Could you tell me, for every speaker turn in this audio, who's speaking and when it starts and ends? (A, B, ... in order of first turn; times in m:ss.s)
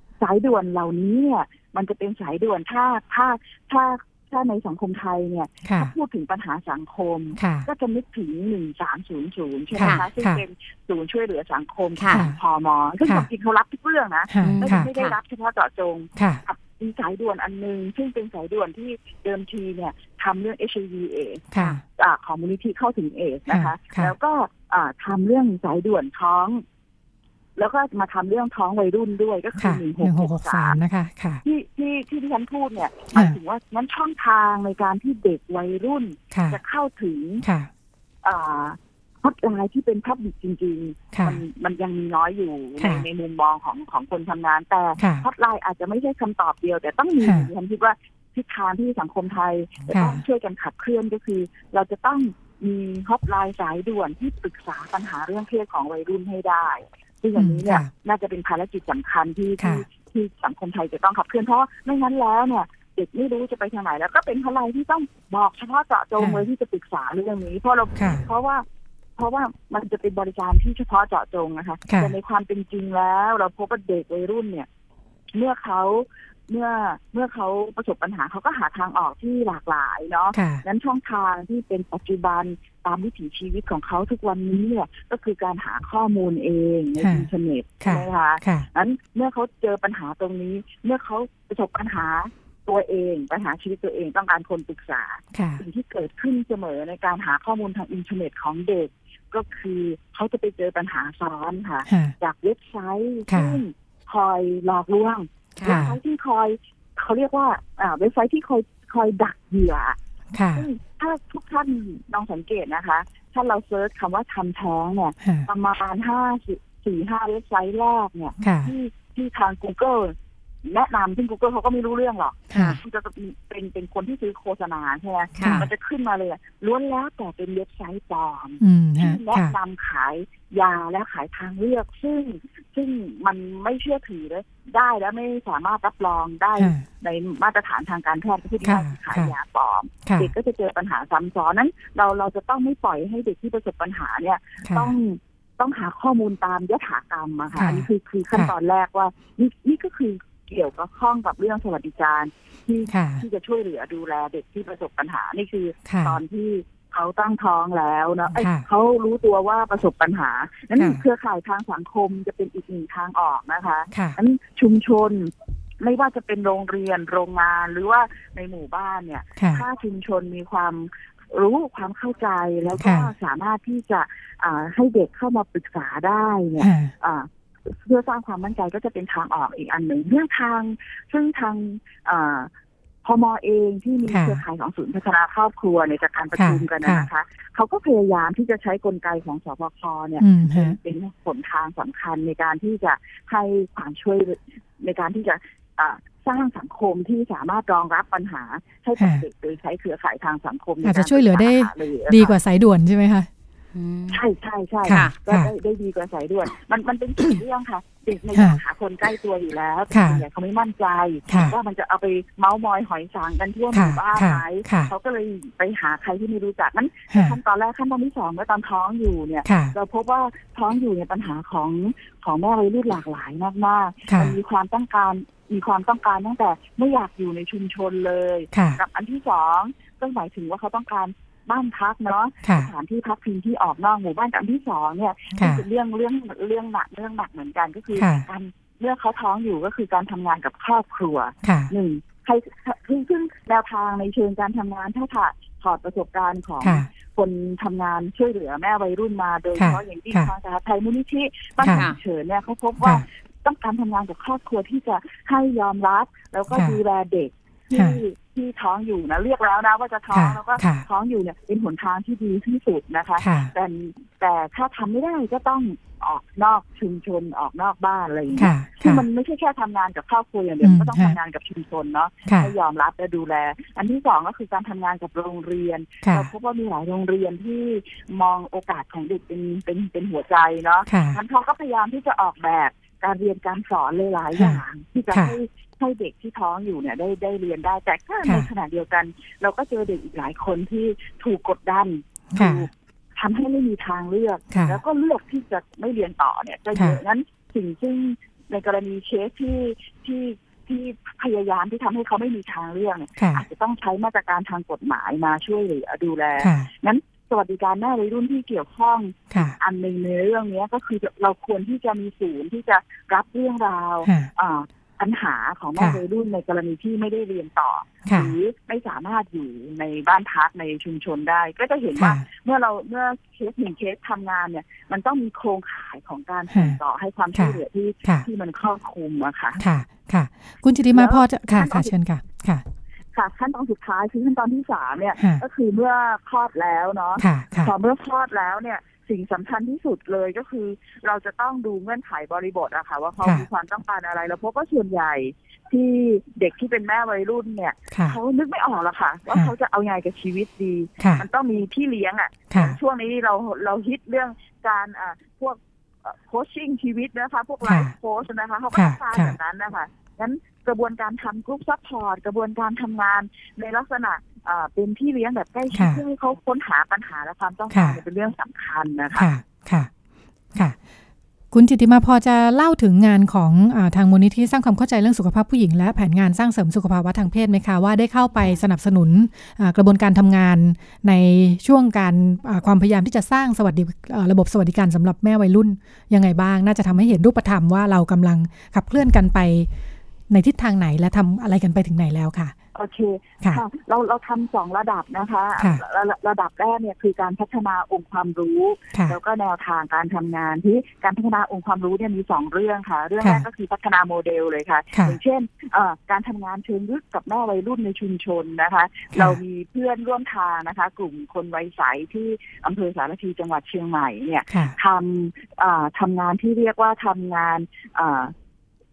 0:00.2-0:21.4 A
0:05.6-0:05.9 B
0:07.4-0:07.7 B
0:09.7-0:10.4 B
0:09.8-0:10.0 C
0:12.0-0:12.2 C
0:12.1-0:12.4 B
0:13.0-0:13.3 B
0:14.3-0:14.9 B
0:14.4-0:15.2 C
0:16.2-0:16.4 B
0:21.5-0:21.8 B
0:22.0-0:26.6 A
0:23.5-0:24.1 B
0:27.6-0:30.8 A
0:29.6-0:31.4 B
0:31.4-0:37.4 A
0:33.1-0:33.4 B
0:36.3-0:36.6 B
0:37.4-0:37.7 B
0:38.2-1:08.6 A
0:41.1-0:41.4 B
0:42.8-0:43.0 B
0:45.0-0:45.2 B
0:47.2-0:47.5 B
0:49.9-0:50.2 B
0:57.4-0:57.9 B
1:06.2-1:06.4 B
1:08.0-1:08.2 B
1:09.2-1:14.7 A
1:11.9-1:12.1 B
1:15.3-1:50.0 A
1:20.3-1:20.6 B
1:27.0-1:27.3 B
1:27.8-1:28.7 B
1:35.3-1:35.6 B
1:41.9-1:42.1 B
1:43.3-1:43.6 B
1:45.6-1:45.8 C
1:45.6-1:46.0 B
1:50.3-1:50.7 B
1:50.6-3:02.5 A
1:55.2-1:55.5 B
1:58.4-1:58.7 B
2:02.5-2:02.8 B
2:02.5-2:02.8 C
2:05.4-2:05.6 C
2:05.4-2:05.7 B
2:08.6-2:09.5 B
2:16.6-2:16.8 B
2:18.6-2:19.3 B
2:20.0-2:20.3 B
2:24.6-2:25.0 B
2:27.5-2:28.5 B
2:32.9-2:33.2 B
2:35.8-2:36.2 B
2:38.3-2:38.6 B
2:40.7-2:41.0 B
2:43.9-2:44.2 B
2:49.4-2:49.6 B
2:52.8-2:53.1 B
2:56.6-2:56.9 B
3:03.0-3:22.3 A
3:04.1-3:04.4 B
3:06.4-3:07.1 B
3:10.2-3:10.8 B
3:19.0-3:19.2 B
3:20.8-3:23.3 B
3:23.7-3:24.2 C
3:24.1-5:29.6 A
3:24.8-3:25.5 B
3:24.9-3:25.1 C
3:28.3-3:28.6 B
3:29.9-3:30.2 B
3:31.3-3:31.6 B
3:33.7-3:34.9 B
3:37.1-3:37.4 B
3:39.4-3:39.7 B
3:44.1-3:44.3 B
3:48.5-3:48.8 B
3:52.4-3:52.7 B
3:55.3-3:55.6 B
3:57.9-3:58.2 B
4:01.4-4:01.7 B
4:06.6-4:06.9 B
4:09.6-4:10.3 B
4:11.6-4:11.9 B
4:11.6-4:12.0 C
4:12.8-4:13.0 B
4:16.5-4:16.8 B
4:17.7-4:18.0 B
4:20.1-4:20.8 B
4:23.2-4:23.5 B
4:28.3-4:29.0 B
4:30.6-4:31.2 B
4:32.3-4:32.5 B
4:36.0-4:36.3 B
4:40.9-4:41.2 B
4:44.3-4:44.6 B
4:52.3-4:52.6 B
4:54.5-4:54.8 B
4:56.7-4:57.0 B
5:03.2-5:03.4 B
5:06.4-5:06.7 B
5:14.0-5:14.3 B
5:18.0-5:18.3 B
5:22.0-5:22.2 B
5:26.5-5:26.8 B
5:27.3-5:28.3 B
5:29.6-5:32.6 B
5:30.9-5:31.9 A
5:33.1-6:09.3 A
5:35.2-5:35.4 B
5:37.2-5:37.7 B
5:43.2-5:43.4 B
5:47.9-5:48.2 B
5:51.0-5:51.2 B
5:52.5-5:52.8 B
5:57.6-5:57.9 B
5:58.7-5:59.4 B
6:05.7-6:06.0 B
6:07.7-6:08.0 B
6:09.1-6:09.9 B
6:11.5-6:29.7 B
6:30.3-6:32.5 B
6:32.7-6:58.3 A
6:49.1-6:49.4 B